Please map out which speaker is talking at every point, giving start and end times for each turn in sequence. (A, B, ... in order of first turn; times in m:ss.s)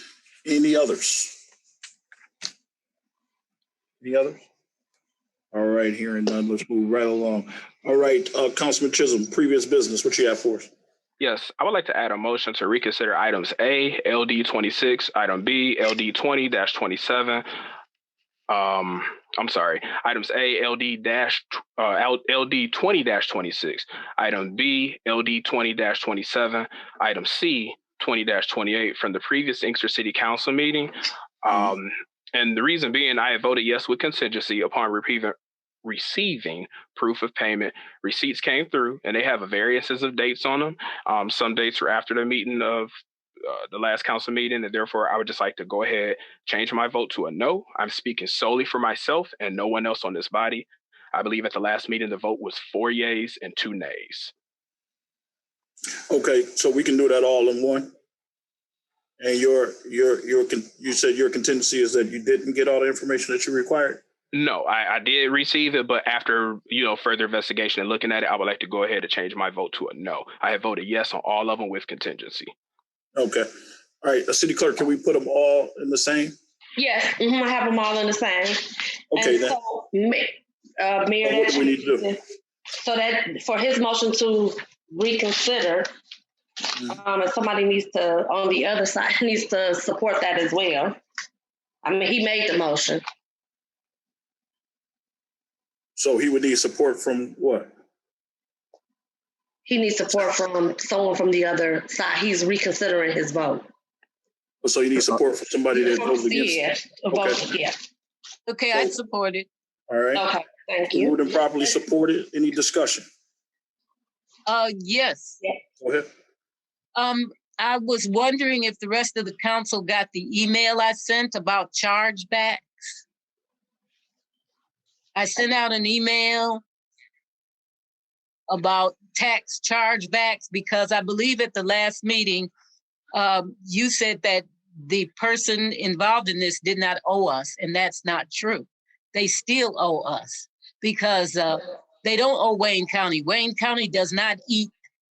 0:00.4-0:01.4 A
0:04.0-0:04.4 A
0:05.5-0:10.7 A
0:11.2-0:17.4 B
0:18.5-0:30.9 B
0:31.4-0:42.9 B
0:43.4-0:54.3 B
0:56.1-0:57.9 A
0:59.2-1:04.0 A
1:04.3-1:12.5 B
1:13.1-1:13.5 A
1:14.0-1:16.4 A
1:16.8-1:22.2 C
1:19.1-1:19.5 A
1:21.2-1:22.1 A
1:22.7-1:25.9 C
1:26.9-1:31.0 C
1:31.8-1:33.0 C
1:36.0-1:37.7 A
1:39.6-1:43.7 C
1:44.6-1:47.4 A
1:45.7-1:47.7 C
1:48.5-1:49.5 D
1:49.9-1:50.2 A
1:50.1-1:51.2 C
1:50.9-1:53.1 A
1:54.5-1:55.4 D
1:55.8-1:56.1 A
1:56.9-2:02.7 D
2:05.1-2:06.6 D
2:08.5-2:12.5 D
2:13.1-2:24.7 D